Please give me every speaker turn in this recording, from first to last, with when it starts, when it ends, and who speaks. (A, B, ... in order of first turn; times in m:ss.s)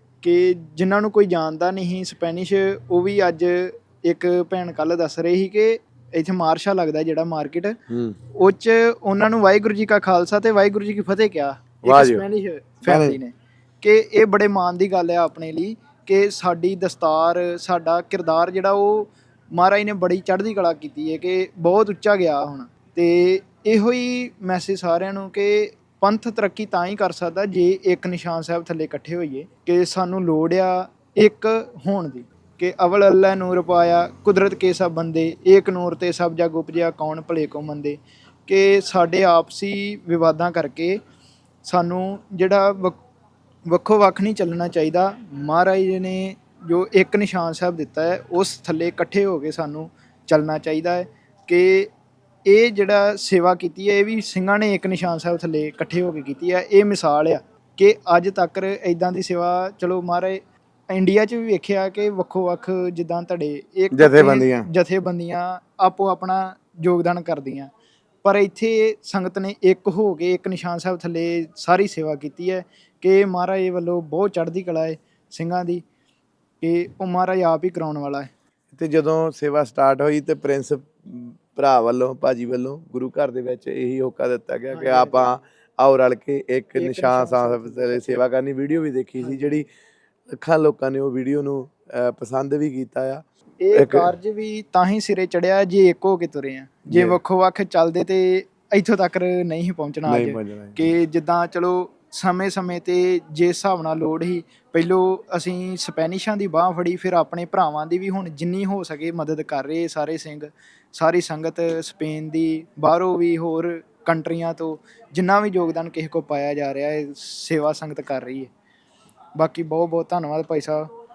0:00.2-0:07.7 A
0:07.9-0:08.2 B
0:08.4-0:41.0 A
0:11.8-0:12.2 B
0:12.8-0:13.2 B
0:41.6-0:43.0 A
0:43.7-0:51.9 A
0:52.5-1:00.4 A
1:00.9-1:07.7 A
1:03.9-1:04.6 B
1:08.2-1:15.8 A
1:16.6-1:18.3 A
1:18.7-1:29.7 B
1:24.7-1:25.3 A
1:26.8-1:28.1 A
1:29.2-1:29.5 A
1:30.3-1:34.1 B
1:33.6-1:58.5 A
1:36.9-1:37.2 B
1:40.0-1:40.8 B
1:59.4-2:00.8 A